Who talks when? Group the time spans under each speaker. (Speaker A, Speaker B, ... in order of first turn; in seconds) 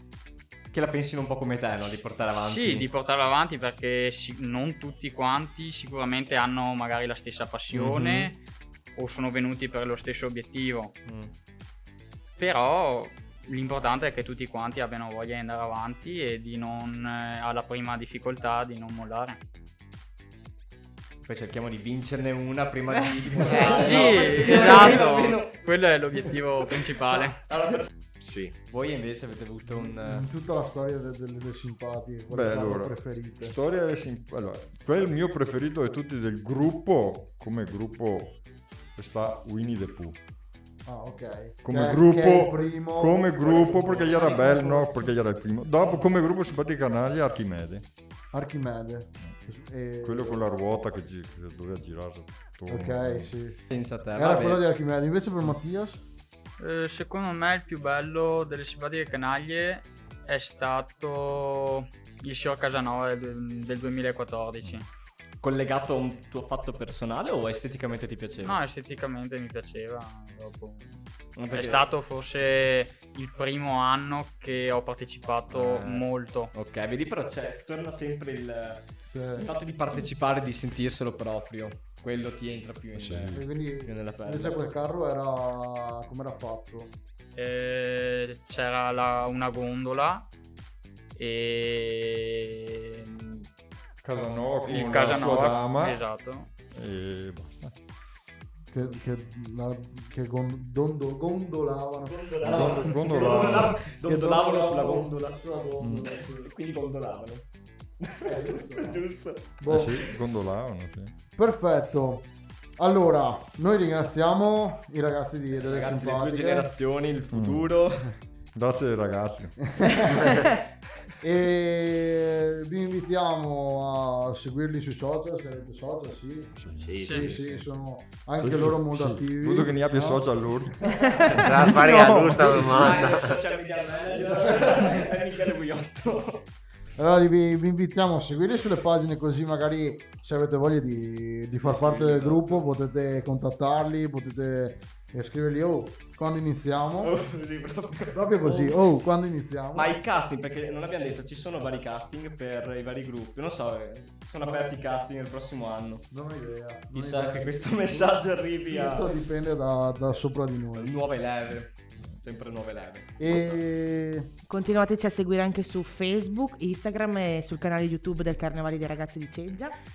Speaker A: 0.7-2.9, 7.7-8.3, 11.1-11.3, 21.2-27.9, 28.6-30.3, 53.7-54.6, 65.4-68.6, 71.3-71.8, 75.5-84.6, 102.0-105.4, 106.1-107.5, 108.0-110.1, 115.5-118.1, 131.2-136.4, 141.6-142.7, 147.0-148.8, 149.7-156.1, 156.9-159.1, 160.7-163.6
Speaker B: 2.3-8.4, 8.9-10.9, 12.4-19.4, 23.5-27.4, 56.6-64.9, 68.4-76.5, 87.3-90.3, 91.2-93.5, 94.7-96.5, 127.0-127.3
Speaker C: 23.6-23.9, 164.5-169.8
Speaker D: 23.7-24.3, 28.2-28.5, 126.8-127.4, 131.2-133.4
Speaker E: 29.7-33.5, 40.9-45.1, 48.3-50.4, 52.7-53.6, 54.1-56.0, 79.1-79.5, 83.3-86.9, 98.7-106.5, 108.2-110.0, 111.4-116.7, 119.8-120.4, 121.2-131.5, 134.3-135.0, 137.0-147.1, 148.1-149.9, 156.1-160.9, 163.2-164.3
Speaker F: 32.3-38.4, 39.0-40.2, 41.6-47.9, 50.0-53.3, 82.9-83.5, 94.0-96.0, 96.7-97.8, 102.4-103.8, 105.8-106.1, 109.7-111.1, 117.3-117.8, 118.5-119.6, 126.5-127.7, 128.4-131.4